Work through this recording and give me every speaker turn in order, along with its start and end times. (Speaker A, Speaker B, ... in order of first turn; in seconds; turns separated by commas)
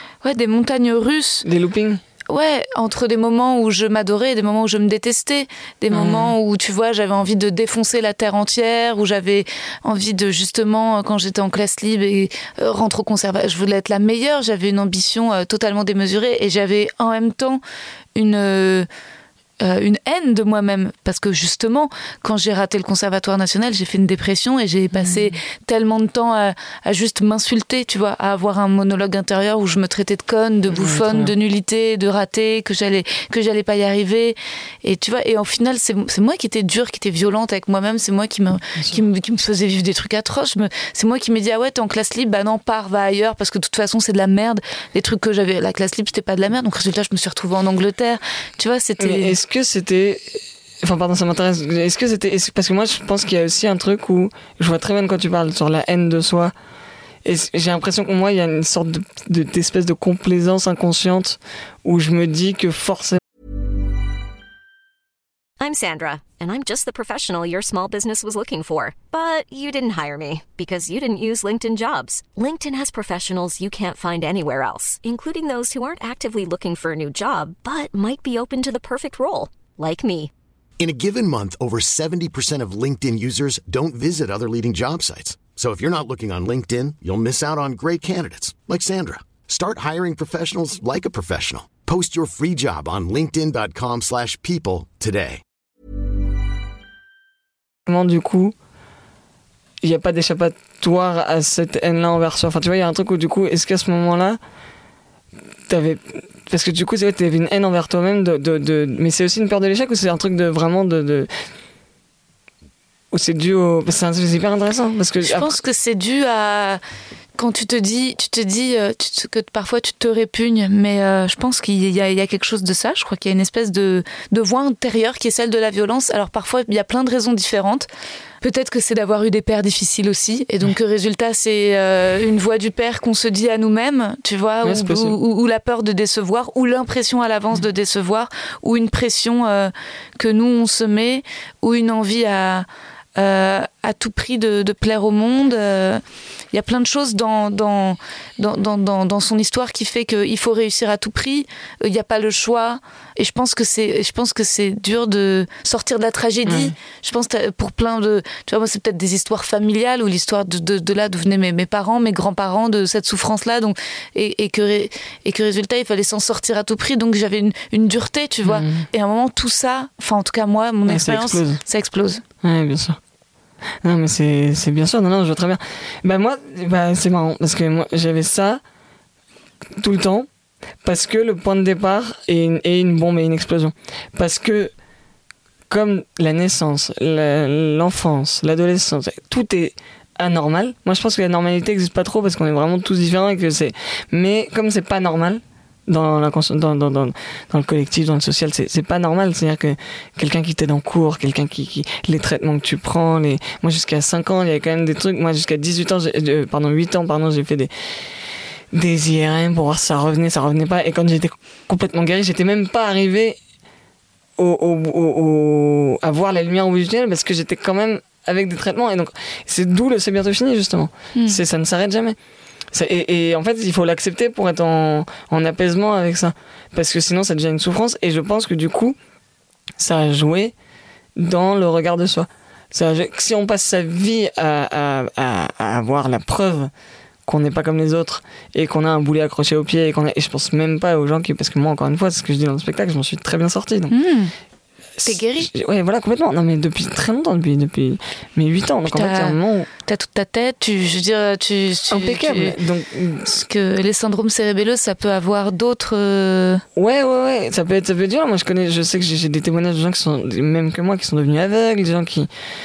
Speaker A: 0.2-1.5, Speaker B: 1.4-2.0, Speaker A: 2.3-17.6, Speaker B: 5.9-6.4, Speaker A: 18.1-18.9, Speaker A: 19.6-49.4, Speaker B: 30.7-31.3, Speaker B: 49.0-56.5, Speaker B: 57.2-63.2, Speaker C: 65.6-80.3, Speaker D: 80.8-95.4, Speaker B: 97.9-98.5, Speaker B: 99.8-104.4, Speaker B: 105.7-111.3, Speaker B: 113.1-115.5, Speaker A: 115.2-116.8, Speaker A: 117.4-127.9, Speaker A: 128.4-172.2, Speaker B: 134.6-135.2, Speaker B: 156.4-156.7, Speaker B: 168.4-168.9, Speaker B: 170.9-171.6, Speaker B: 172.4-173.0, Speaker B: 173.8-178.6, Speaker B: 179.8-180.3, Speaker B: 180.8-184.7, Speaker B: 185.7-207.7, Speaker B: 208.7-213.4, Speaker B: 214.4-222.2, Speaker A: 221.2-221.4, Speaker B: 222.7-229.0, Speaker B: 229.8-230.5, Speaker B: 231.2-236.7, Speaker B: 237.2-243.9, Speaker A: 243.9-244.3, Speaker B: 245.0-249.7, Speaker A: 245.1-245.5, Speaker A: 248.9-252.6, Speaker B: 251.9-253.3, Speaker A: 253.2-256.6, Speaker B: 256.8-262.3